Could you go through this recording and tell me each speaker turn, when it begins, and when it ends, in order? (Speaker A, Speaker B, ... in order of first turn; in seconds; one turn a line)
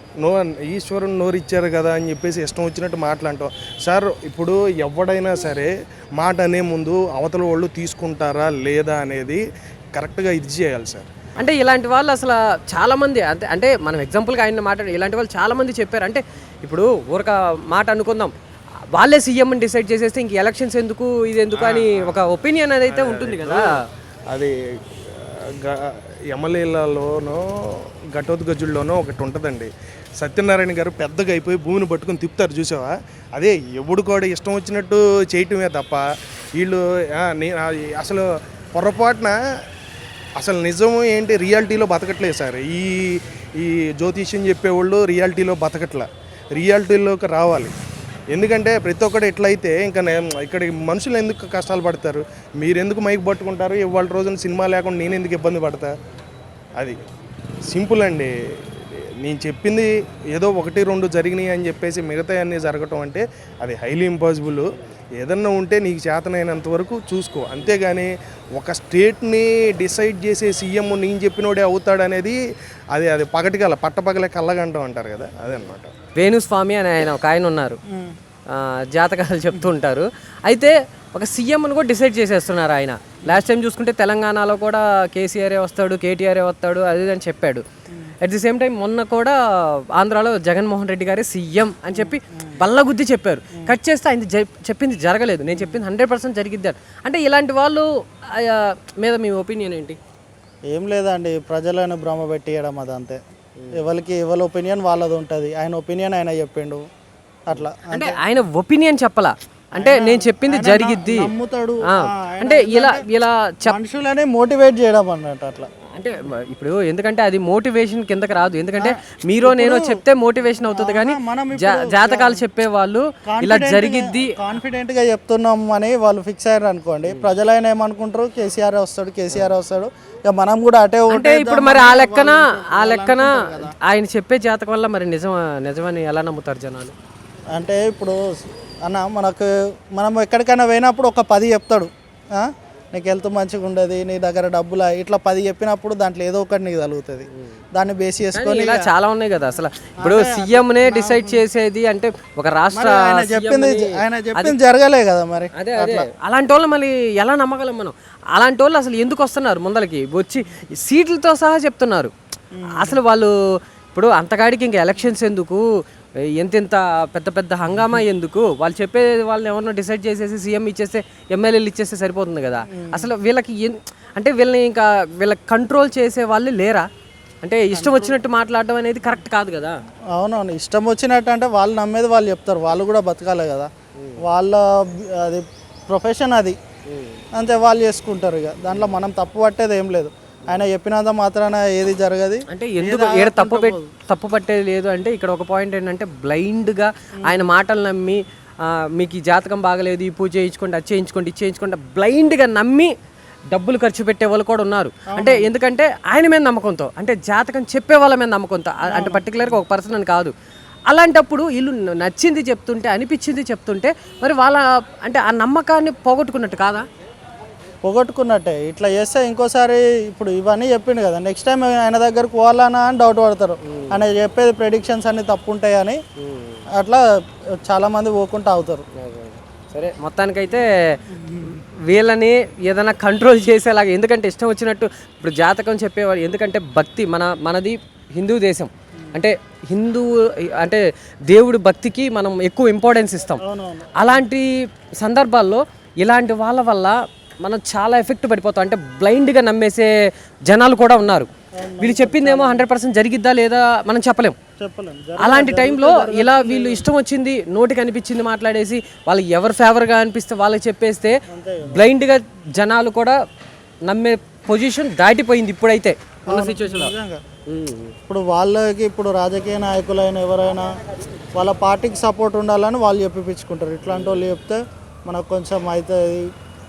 Speaker A: 0.2-9.4
Speaker A: 9.9-11.1
Speaker B: 11.4-18.3
Speaker B: 18.9-23.7
Speaker A: 21.6-22.2
Speaker A: 22.8-23.7
Speaker A: 24.3-36.0
Speaker A: 36.5-39.4
Speaker A: 40.4-47.7
Speaker A: 48.3-55.9
Speaker A: 57.7-64.6
Speaker A: 65.2-72.4
Speaker A: 72.9-75.9
Speaker B: 76.2-77.8
Speaker C: 77.9-78.1
Speaker B: 78.5-87.6
Speaker B: 88.2-100.0
Speaker C: 91.9-92.5
Speaker C: 95.5-95.8
Speaker C: 100.7-103.2
Speaker C: 103.7-106.8
Speaker C: 107.5-108.2
Speaker B: 107.5-111.3
Speaker C: 109.8-113.0
Speaker B: 111.9-113.8
Speaker C: 113.7-115.7
Speaker B: 115.9-124.3
Speaker C: 118.8-120.0
Speaker C: 120.6-122.4
Speaker C: 123.3-133.7
Speaker B: 131.1-136.9
Speaker C: 137.5-138.2
Speaker C: 138.8-148.9
Speaker B: 148.3-154.6
Speaker C: 150.0-151.4
Speaker C: 152.7-156.1
Speaker B: 155.5-162.1
Speaker C: 162.5-163.0
Speaker B: 162.8-163.3
Speaker B: 163.9-165.6
Speaker B: 166.4-176.8
Speaker C: 167.7-168.0
Speaker C: 172.7-173.1
Speaker B: 177.4-179.8
Speaker C: 177.7-178.2
Speaker C: 180.2-183.7
Speaker C: 184.2-186.6
Speaker B: 186.9-187.2
Speaker C: 187.3-193.9
Speaker B: 192.5-202.9
Speaker C: 197.2-197.5
Speaker B: 203.5-210.3
Speaker C: 205.1-205.5
Speaker C: 208.9-209.6
Speaker B: 210.9-216.8
Speaker C: 217.8-226.0
Speaker B: 223.7-224.0
Speaker B: 226.2-226.6
Speaker C: 226.8-227.0
Speaker C: 227.6-228.8
Speaker B: 228.9-230.7
Speaker C: 231.1-231.6
Speaker B: 231.5-243.4
Speaker C: 243.4-244.2
Speaker B: 244.0-244.5
Speaker B: 245.0-249.9
Speaker B: 250.4-254.3
Speaker C: 251.6-252.7
Speaker C: 254.6-256.9
Speaker B: 255.2-263.1
Speaker C: 261.3-261.9
Speaker B: 263.9-266.9
Speaker C: 266.2-267.2
Speaker B: 267.5-267.9
Speaker C: 268.1-270.7
Speaker C: 271.3-276.2